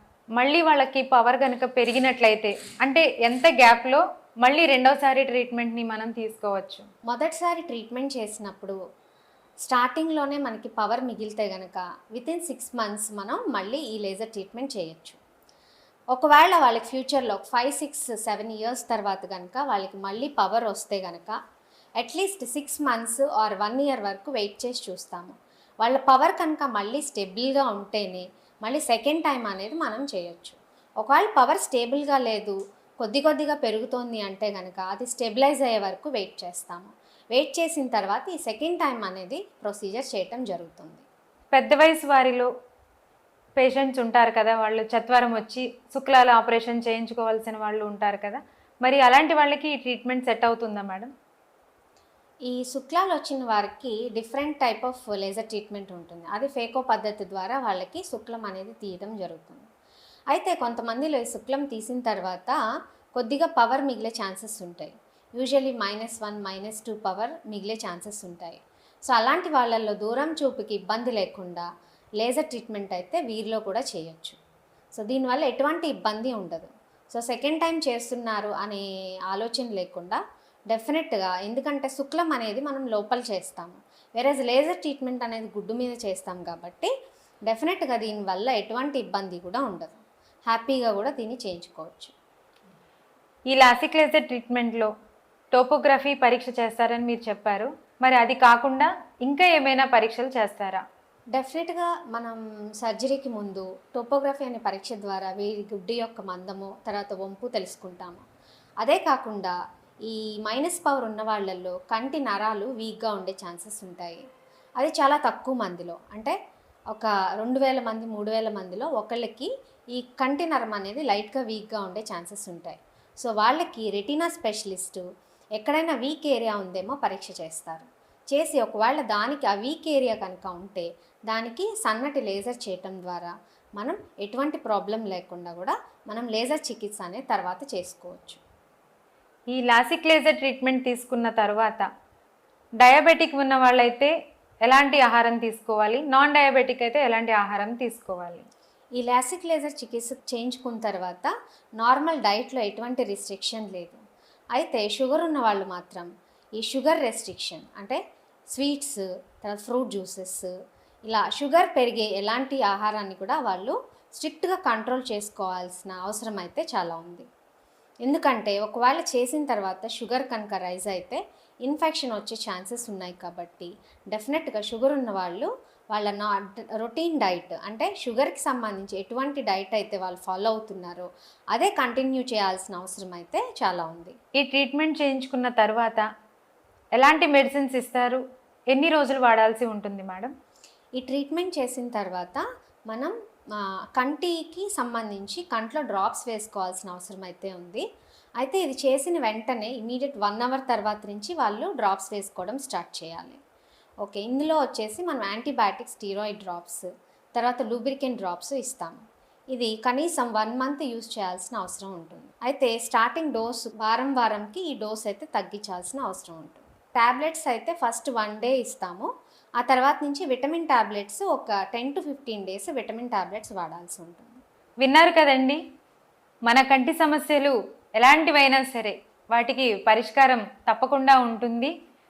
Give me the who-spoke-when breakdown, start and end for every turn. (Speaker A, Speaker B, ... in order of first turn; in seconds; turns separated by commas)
Speaker A: 0.4-6.9, Speaker B: 7.1-8.8, Speaker B: 9.6-15.2, Speaker B: 16.1-21.4, Speaker B: 22.0-41.0, Speaker A: 41.5-42.5, Speaker A: 43.6-51.1, Speaker B: 52.5-59.6, Speaker B: 60.3-62.6, Speaker B: 63.2-71.7, Speaker B: 72.2-74.4, Speaker B: 75.0-86.9, Speaker B: 87.5-92.1, Speaker A: 93.5-94.9, Speaker A: 95.5-100.8, Speaker B: 101.3-108.2, Speaker B: 108.8-109.5, Speaker B: 110.1-114.2, Speaker B: 114.8-116.3, Speaker B: 116.9-125.0, Speaker B: 125.6-138.4, Speaker A: 139.5-141.9, Speaker A: 142.8-144.1, Speaker A: 144.6-148.5, Speaker B: 149.0-154.0, Speaker B: 154.6-158.0, Speaker B: 158.6-160.5, Speaker B: 161.1-167.3, Speaker B: 168.1-184.2, Speaker A: 184.4-186.1, Speaker A: 187.0-190.3, Speaker B: 191.0-197.8, Speaker B: 198.4-203.4, Speaker B: 204.0-209.0, Speaker B: 209.5-219.1, Speaker B: 219.6-224.4, Speaker A: 224.8-225.6, Speaker A: 226.5-231.7